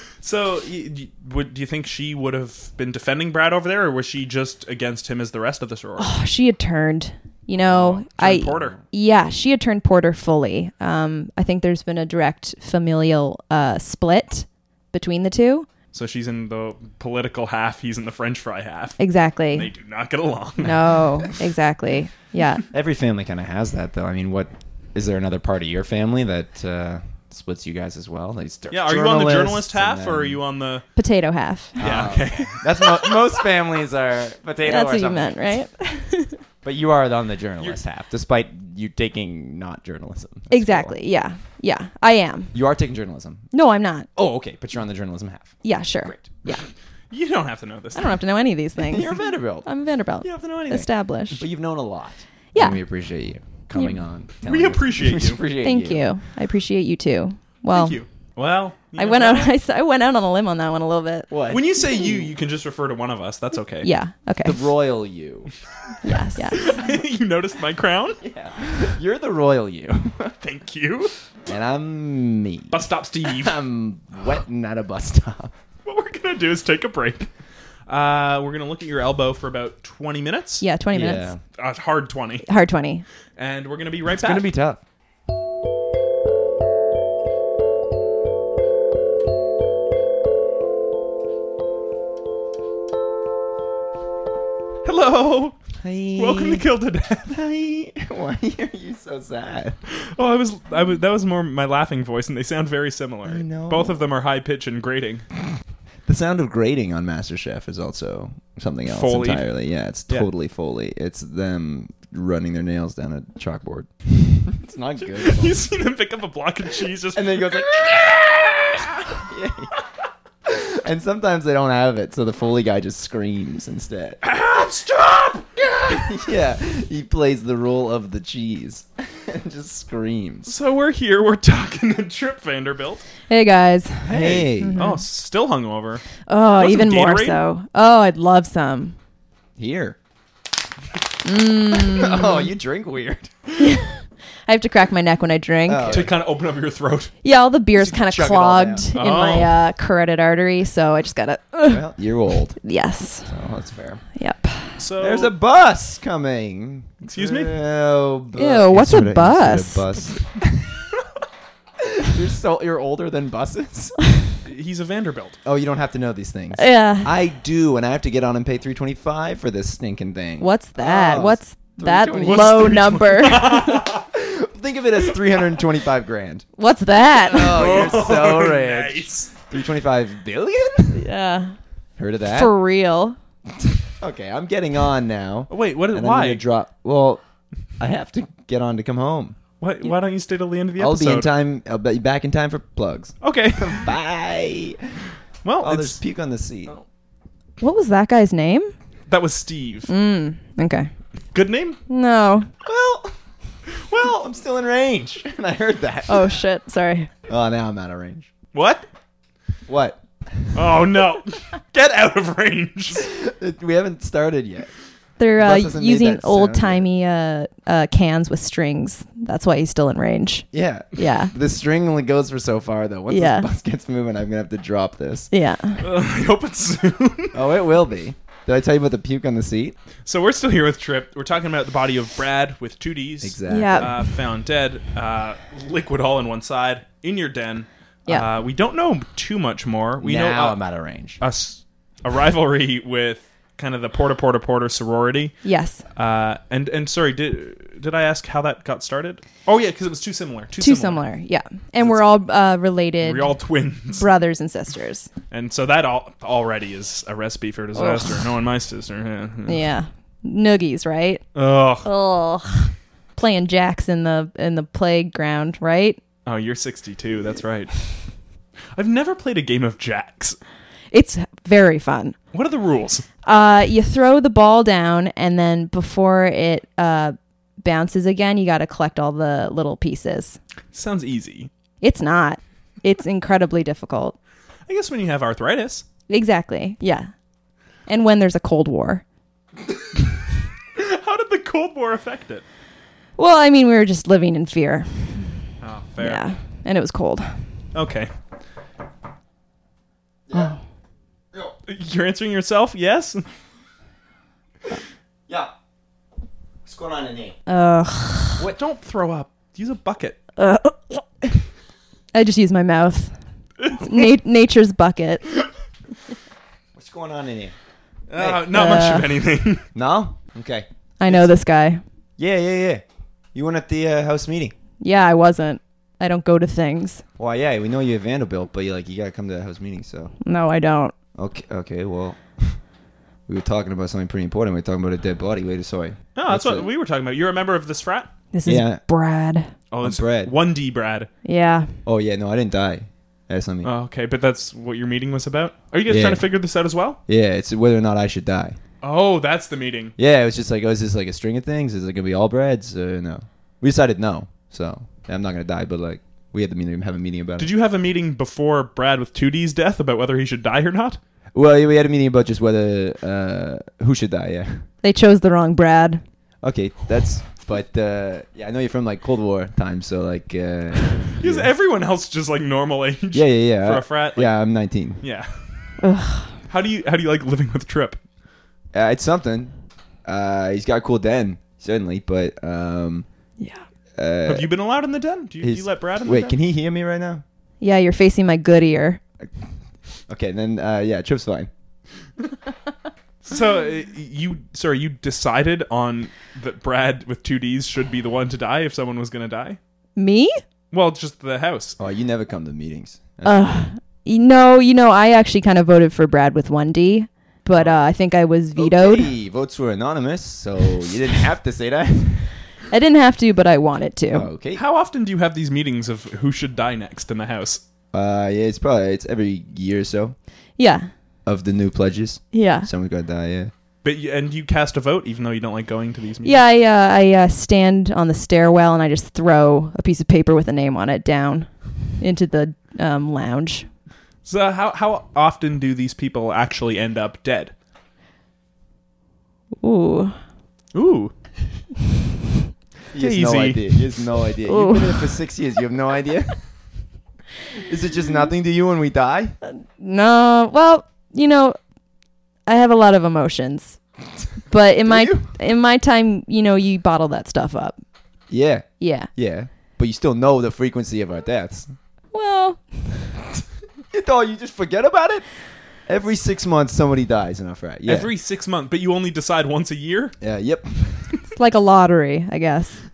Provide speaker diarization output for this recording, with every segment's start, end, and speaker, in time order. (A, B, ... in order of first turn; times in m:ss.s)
0:00.2-0:06.1 A
0:06.0-0:15.7 B
0:07.6-0:08.8 A
0:15.9-0:19.0 A
0:19.0-0:19.7 B
0:19.5-0:21.0 A
0:20.6-0:22.6 B
0:22.7-0:30.4 C
0:28.7-0:30.8 A
0:31.0-0:31.8 B
0:31.8-0:35.5 C
0:31.8-0:32.6 A
0:34.6-0:36.4 B
0:36.6-0:40.9 C
0:40.5-0:42.5 B
0:42.5-0:43.5 C
0:43.5-0:44.1 B
0:44.2-0:45.5 C
0:45.6-0:46.6 B
0:47.1-0:48.1 A
0:48.0-0:51.4 B
0:48.8-0:49.7 C
0:50.2-0:56.1 C
0:54.4-0:55.4 A
0:55.6-0:58.0 B
0:57.7-0:59.5 A
0:59.0-1:01.3 B
1:01.3-1:02.0 C
1:01.5-1:03.9 A
1:03.8-1:04.6 B
1:04.4-1:05.5 C
1:06.0-1:06.8 B
1:06.4-1:08.2 A
1:08.2-1:10.3 C
1:10.4-1:11.2 A
1:11.5-1:15.5 C
1:12.7-1:13.6 A
1:15.8-1:17.3 A
1:17.9-1:20.6 A
1:20.6-1:21.3 B
1:20.9-1:21.4 C
1:21.6-1:22.5 A
1:22.5-1:23.0 B
1:23.4-1:24.5 A
1:24.1-1:24.8 C
1:34.8-1:35.6 A
1:35.8-1:36.7 C
1:36.2-1:37.3 A
1:37.3-1:39.8 C
1:40.2-1:45.2 A
1:43.2-1:44.0 C
1:46.1-1:55.6 C
1:48.9-1:49.5 A
1:55.0-1:58.2 A
1:57.2-1:59.7 C
2:00.4-2:04.2 C
2:04.2-2:06.1 A
2:05.9-2:10.5 C
2:10.4-2:13.0 A
2:13.3-2:15.0 B
2:14.0-2:14.8 C
2:14.8-2:16.0 A
2:16.3-2:19.0 B
2:16.6-2:17.4 A
2:19.6-2:20.0 C
2:21.2-2:22.5 B
2:21.8-2:23.4 C
2:23.6-2:26.1 B
2:25.7-2:26.1 C
2:25.9-2:27.1 A
2:27.2-2:31.9 B
2:27.7-2:28.9 C
2:29.0-2:29.6 A
2:31.7-2:32.6 C
2:32.6-2:33.3 B
2:33.3-2:34.0 C
2:34.2-2:34.8 B
2:34.8-2:35.3 A
2:35.0-2:40.8 C
2:37.1-2:37.5 A
2:38.4-2:39.9 B
2:41.8-2:44.0 C
2:44.4-2:45.4 A
2:45.4-2:52.8 C
2:46.6-2:47.2 B
2:50.4-2:53.8 B
2:52.2-2:54.1 A
2:54.1-2:56.5 C
2:56.6-2:57.8 B
2:57.2-3:01.1 C
2:57.4-2:59.3 A
3:01.0-3:01.6 B
3:02.0-3:02.5 C
3:02.3-3:03.2 B
3:04.0-3:07.2 C
3:05.5-3:06.4 A
3:07.8-3:09.4 C
3:09.6-3:11.3 A
3:10.8-3:15.0 C
3:13.2-3:13.9 A
3:15.4-3:16.0 A
3:15.6-3:16.8 C
3:17.6-3:18.7 B
3:19.1-3:19.9 A
3:19.9-3:20.9 B
3:21.3-3:21.8 A
3:21.9-3:22.5 B
3:22.6-3:23.1 C
3:23.8-3:26.4 C
3:26.1-3:27.1 B
3:27.3-3:28.3 C
3:28.5-3:28.9 A
3:29.7-3:30.8 C
3:30.5-3:33.1 A
3:32.9-3:34.7 C
3:35.2-3:41.3 B
3:35.4-3:36.8 C
3:40.5-3:45.3 C
3:43.1-3:43.5 B
3:45.3-3:45.8 B
3:45.8-3:47.4 A
3:47.3-3:49.8 C
3:50.0-4:00.6 A
3:53.2-3:54.0 C
3:53.5-3:54.0 B
4:00.0-4:01.2 C
4:01.2-4:05.4 A
4:05.4-4:05.8 B
4:06.0-4:11.0 A
4:10.6-4:13.3 B
4:13.0-4:14.1 A
4:14.0-4:15.1 B
4:15.3-4:19.6 A
4:17.8-4:18.3 B
4:19.5-4:21.2 B
4:21.4-4:21.9 A
4:21.8-4:26.0 B
4:26.3-4:27.7 A
4:28.7-4:30.4 A
4:30.9-4:32.2 B
4:32.3-4:33.1 A
4:33.2-4:40.4 B
4:40.7-4:41.5 A
4:41.8-4:44.2 B
4:44.7-4:45.9 A
4:46.1-4:47.1 B
4:47.9-4:49.0 B
4:50.8-4:52.4 A
4:53.2-4:55.3 B
4:55.6-4:56.2 A
4:56.0-4:57.3 B
4:57.7-4:58.1 A
5:01.7-5:03.3 A
5:06.6-5:07.4 C
5:07.5-5:08.5 B
5:08.4-5:10.2 A
5:10.4-5:11.3 B
5:12.1-5:13.1 B
5:13.6-5:14.0 A
5:13.7-5:15.3 B
5:16.8-5:17.5 C
5:18.1-5:19.7 A
5:18.2-5:18.5 C
5:18.5-5:19.1 B
5:19.7-5:21.3 C
5:21.0-5:21.8 B
5:22.2-5:24.5 C
5:24.8-5:27.0 B
5:27.2-5:30.1 C
5:30.2-5:30.9 B
5:31.2-5:32.6 C
5:33.3-5:36.7 C
5:36.2-5:38.1 A
5:38.3-5:39.5 B
5:38.4-5:38.8 C
5:39.7-5:41.1 A
5:39.8-5:40.3 C
5:41.2-5:41.7 B
5:41.9-5:43.7 C
5:43.6-5:47.0 A
5:45.9-5:46.2 C
5:47.1-5:48.6 C
5:48.8-5:50.0 A
5:50.0-5:57.5 C
5:57.4-6:01.0 A
6:01.3-6:04.7 C
6:04.8-6:06.0 B
6:06.4-6:11.5 C
6:11.2-6:14.3 A
6:13.1-6:15.0 C
6:15.0-6:15.4 A
6:15.8-6:16.4 B
6:16.5-6:18.0 A
6:18.7-6:19.5 C
6:20.0-6:23.1 C
6:24.0-6:24.5 C
6:24.3-6:26.4 A
6:25.4-6:27.2 C
6:27.6-6:29.0 B
6:30.1-6:31.5 C
6:33.2-6:39.6 A
6:40.0-6:40.3 B
6:40.7-6:41.8 A
6:41.8-6:43.5 C
6:43.2-6:49.1 B
6:48.6-6:52.4 C
6:52.7-6:54.3 B
6:54.1-6:54.6 C
6:54.6-6:57.6 A
6:57.9-7:00.2 C
7:00.6-7:00.9 B
7:01.3-7:03.5 C
7:02.3-7:02.7 B
7:03.8-7:06.4 A
7:06.2-7:13.7 B
7:14.2-7:17.5 A
7:19.6-7:20.2 B
7:20.7-7:21.1 A
7:22.9-7:26.4 C
7:23.0-7:23.8 A
7:24.4-7:25.2 B
7:27.5-7:29.4 C
7:29.4-7:31.6 B
7:32.5-7:33.8 B
7:34.5-7:37.8 B
7:34.9-7:35.3 C
7:38.3-7:41.7 C
7:38.8-7:39.1 B
7:42.1-7:43.2 B
7:43.9-7:45.3 C
7:45.8-7:48.1 C
7:47.9-7:50.2 A
7:50.2-7:51.1 C
7:51.4-7:52.8 B